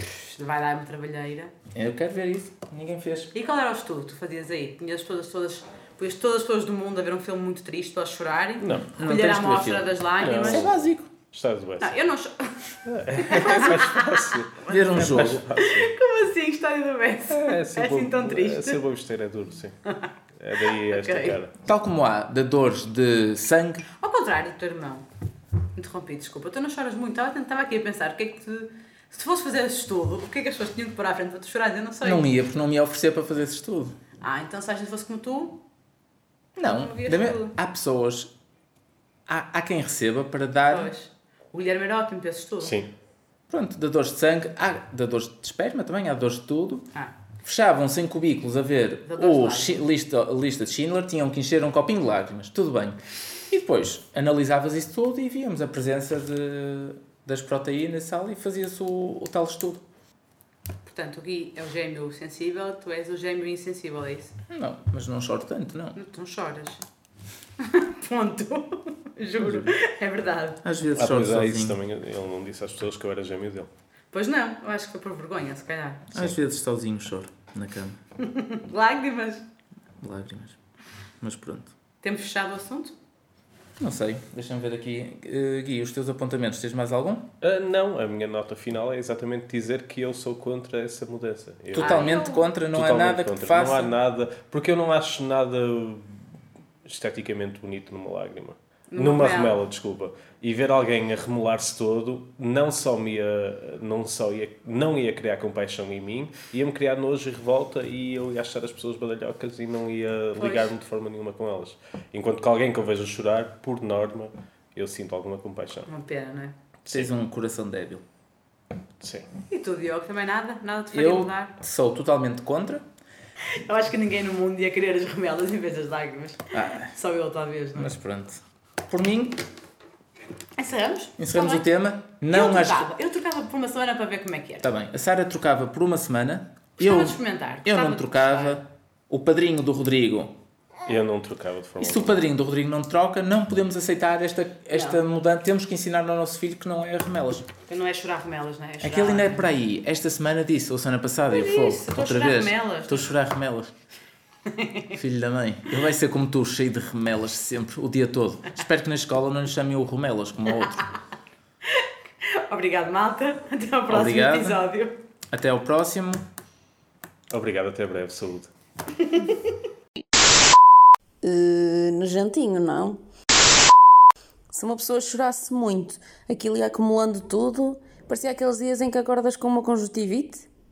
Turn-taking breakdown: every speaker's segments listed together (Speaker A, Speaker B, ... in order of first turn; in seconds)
Speaker A: 0.2-1.5, 3.3-10.7, 11.8-14.1, 14.6-18.8, 20.7-21.4, 24.0-25.1, 25.8-32.3, 34.2-35.6, 36.7-37.5, 40.7-42.8, 49.1-49.8, 60.9-64.3, 66.0-66.8, 67.6-70.6, 74.1-76.1, 78.2-79.5, 82.0-82.9, 91.8-92.4, 98.9-99.6, 110.4-110.7, 115.9-116.5, 119.5-121.5, 123.5-128.0, 130.6-131.7, 132.3-134.7, 136.8-138.6, 144.7-145.0, 147.7-149.5, 151.3-153.1, 154.5-155.0, 161.7-165.0, 169.0-169.5
Speaker B: 1.7-3.3, 8.8-11.1, 13.3-13.7, 14.7-15.4, 21.6-23.8, 32.0-33.9, 36.6-38.3, 39.3-40.9, 43.5-46.9, 47.4-59.8, 64.5-66.0, 69.4-69.7, 70.6-71.8, 76.1-78.0, 80.0-80.6, 81.2-81.7, 83.8-87.3, 91.7-93.9, 116.9-118.0, 120.9-122.8, 126.5-126.9, 127.8-129.4, 131.2-132.9, 134.6-140.3, 141.8-147.5, 148.8-153.7, 154.9-160.9, 163.9-164.6, 165.3-166.2
Speaker C: 8.6-8.9, 10.2-10.8, 11.3-12.0, 12.8-15.9, 17.3-19.7, 20.4-21.5, 42.6-42.9, 71.0-73.7, 87.4-92.1, 92.7-96.2, 96.8-115.9, 116.8-117.1, 119.0-119.3, 140.9-142.2, 167.3-168.5
Speaker D: 171.2-173.0, 174.5-180.5